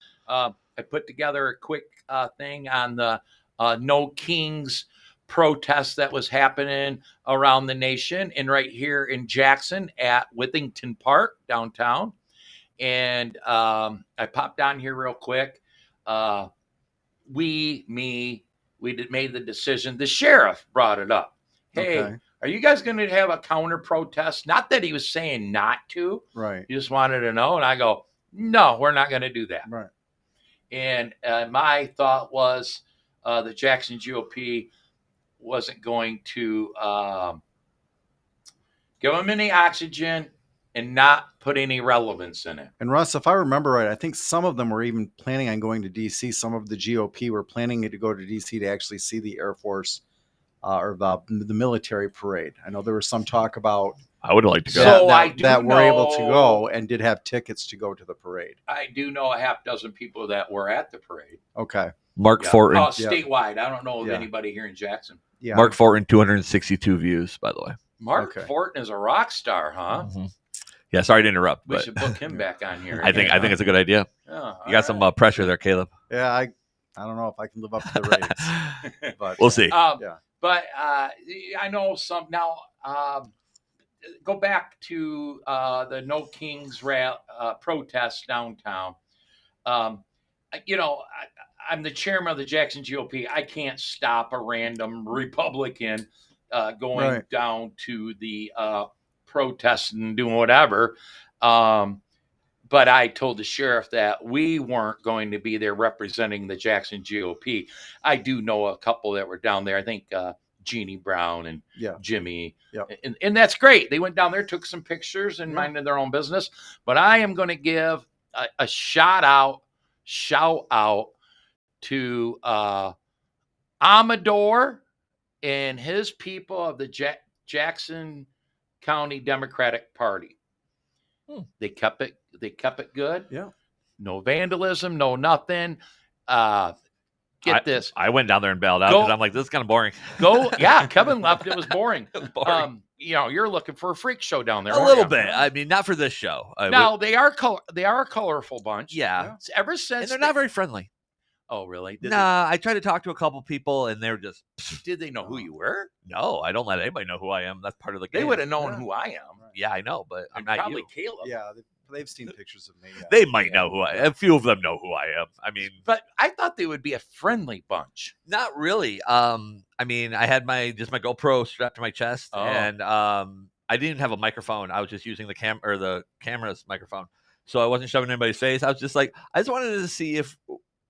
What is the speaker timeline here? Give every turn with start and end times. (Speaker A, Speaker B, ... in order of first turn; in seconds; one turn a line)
Speaker A: 0.3-12.1
Speaker A: 12.8-16.5
Speaker A: 17.3-29.7
Speaker B: 21.8-22.2
Speaker B: 26.3-26.6
Speaker A: 30.7-34.7
Speaker A: 35.4-37.4
Speaker A: 39.0-42.7
Speaker B: 42.8-50.0
Speaker B: 50.6-54.0
Speaker C: 54.2-55.0
Speaker A: 54.7-56.6
Speaker B: 54.7-58.6
Speaker A: 58.7-61.4
Speaker B: 61.5-61.9
Speaker C: 62.1-62.9
Speaker A: 62.4-65.2
Speaker B: 63.0-63.2
Speaker B: 64.0-64.3
Speaker B: 65.4-65.8
Speaker C: 65.5-67.8
Speaker A: 68.0-70.1
Speaker B: 68.2-68.5
Speaker C: 70.0-70.3
Speaker C: 70.9-72.2
Speaker A: 71.7-73.5
Speaker B: 72.3-73.6
Speaker C: 73.0-74.1
Speaker A: 74.2-75.0
Speaker C: 74.6-75.9
Speaker B: 76.1-80.2
Speaker C: 77.9-78.8
Speaker A: 78.8-79.1
Speaker C: 79.4-79.8
Speaker A: 79.7-83.3
Speaker A: 84.2-89.0
Speaker A: 89.6-102.0
Speaker B: 96.9-97.2
Speaker A: 102.7-121.1
Speaker B: 111.8-112.0
Speaker A: 121.8-122.9
Speaker A: 123.8-124.8
Speaker A: 125.4-128.3
Speaker A: 128.8-130.4
Speaker A: 131.6-133.3
Speaker A: 134.0-136.7
Speaker A: 137.4-137.9
Speaker C: 137.4-142.7
Speaker A: 138.8-139.2
Speaker A: 140.2-145.4
Speaker C: 144.7-146.9
Speaker A: 146.7-150.3
Speaker C: 148.9-149.3
Speaker C: 150.0-150.9
Speaker A: 151.5-152.3
Speaker C: 152.0-154.8
Speaker A: 154.8-155.9
Speaker B: 155.2-155.5
Speaker C: 156.1-158.4
Speaker A: 158.1-159.4
Speaker B: 158.6-158.8
Speaker C: 159.5-160.9
Speaker A: 160.3-161.3
Speaker B: 161.2-164.1
Speaker C: 163.1-165.8
Speaker A: 165.8-168.1
Speaker C: 168.3-180.6
Speaker A: 172.3-172.7